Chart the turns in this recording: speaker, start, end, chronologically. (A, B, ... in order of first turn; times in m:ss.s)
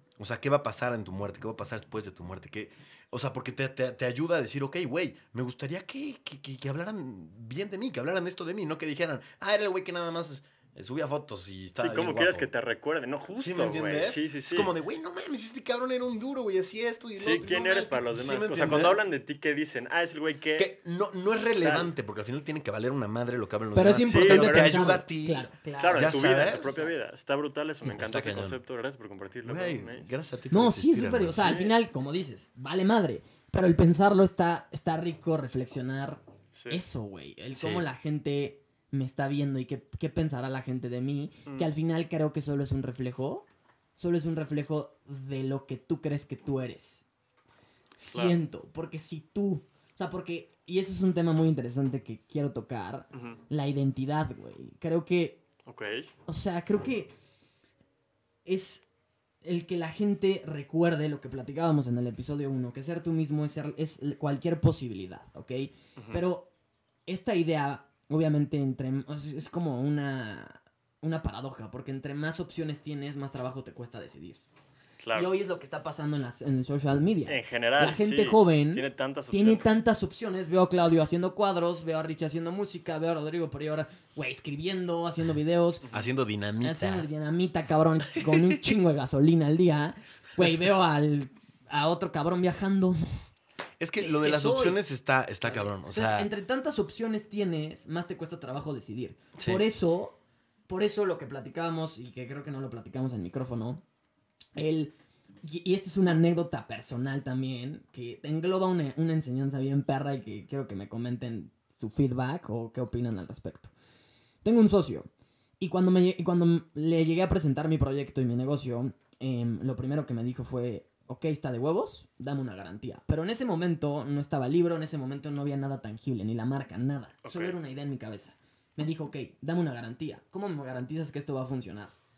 0:00.2-0:12.5 A
0:11.8-0:14.7 B
0:13.3-0:19.0 A
0:17.2-0:20.7 B
0:20.6-0:26.7 A
0:21.6-0:21.9 B
0:23.7-0:26.9 C
0:24.0-0:24.9 B
0:25.8-0:30.1 B
0:27.8-0:28.6 A
0:29.4-0:31.6 A
0:30.5-0:43.5 C
0:31.4-0:31.7 B
0:36.5-0:36.8 B
0:37.5-0:37.8 A
0:44.0-0:47.0 C
0:48.0-0:55.4 C
0:48.1-0:48.4 B
0:53.1-0:53.4 B
0:55.7-0:56.1 B
0:56.3-0:57.1 C
0:58.5-0:58.9 C
0:59.4-1:06.5 C
1:07.1-1:14.4 C
1:15.0-1:15.3 B
1:15.1-1:25.8 C
1:17.3-1:19.6 B
1:25.9-1:27.1 A
1:26.6-1:33.2 C
1:28.2-1:28.7 A
1:33.8-1:36.3 A
1:34.0-1:34.8 C
1:35.4-1:40.2 C
1:39.4-1:39.8 A
1:40.7-1:43.8 C
1:44.6-1:53.7 C
1:54.4-1:55.1 C
1:55.6-2:11.9 C
2:07.2-2:07.5 B